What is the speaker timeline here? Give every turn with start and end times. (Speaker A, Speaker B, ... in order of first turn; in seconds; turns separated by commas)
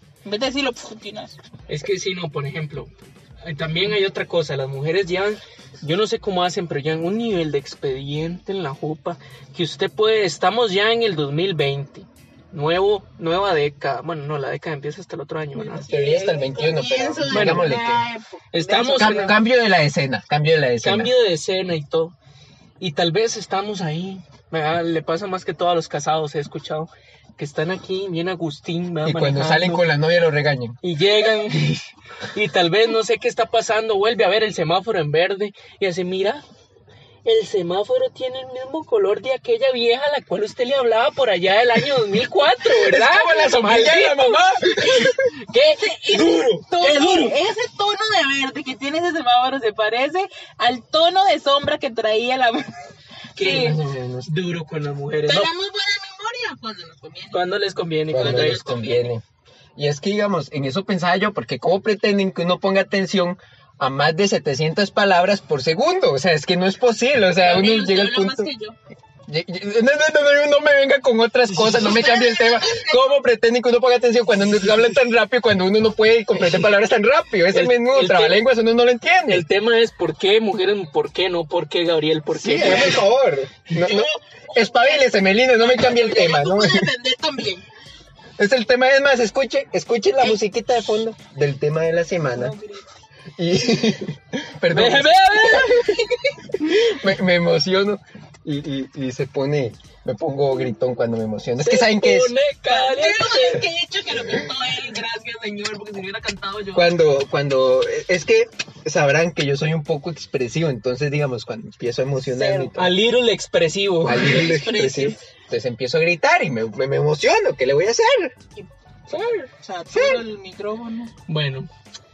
Speaker A: 0.2-1.4, Speaker B: 1.7-15.9, Speaker A: 15.5-19.4, Speaker C: 15.9-18.1, Speaker B: 17.3-17.8, Speaker B: 18.5-19.4, Speaker C: 18.9-21.1, Speaker B: 20.8-22.1, Speaker B: 22.8-29.9, Speaker C: 29.0-30.8, Speaker B: 30.8-36.4, Speaker B: 37.2-47.4, Speaker C: 42.7-45.3, Speaker A: 45.8-52.7, Speaker A: 53.4-53.8, Speaker B: 53.4-55.5, Speaker C: 53.4-54.3, Speaker A: 55.2-57.6, Speaker B: 57.3-59.0, Speaker C: 58.1-59.2, Speaker A: 58.1-59.1, Speaker C: 59.8-68.5, Speaker A: 67.4-68.8, Speaker C: 69.3-79.5, Speaker A: 71.6-73.0, Speaker B: 77.5-78.4, Speaker B: 79.3-83.1, Speaker C: 82.3-86.9, Speaker A: 83.7-87.6, Speaker C: 88.4-92.5, Speaker A: 92.2-92.9, Speaker C: 93.4-95.9, Speaker B: 94.7-96.0, Speaker A: 95.6-96.4, Speaker C: 96.6-102.3, Speaker B: 101.6-103.7, Speaker A: 102.7-106.9, Speaker C: 106.7-113.0, Speaker A: 112.2-112.7, Speaker B: 112.7-114.5, Speaker C: 114.0-118.3, Speaker A: 114.1-115.2, Speaker B: 119.1-119.5, Speaker A: 119.5-121.1, Speaker C: 119.9-120.2, Speaker B: 121.3-121.7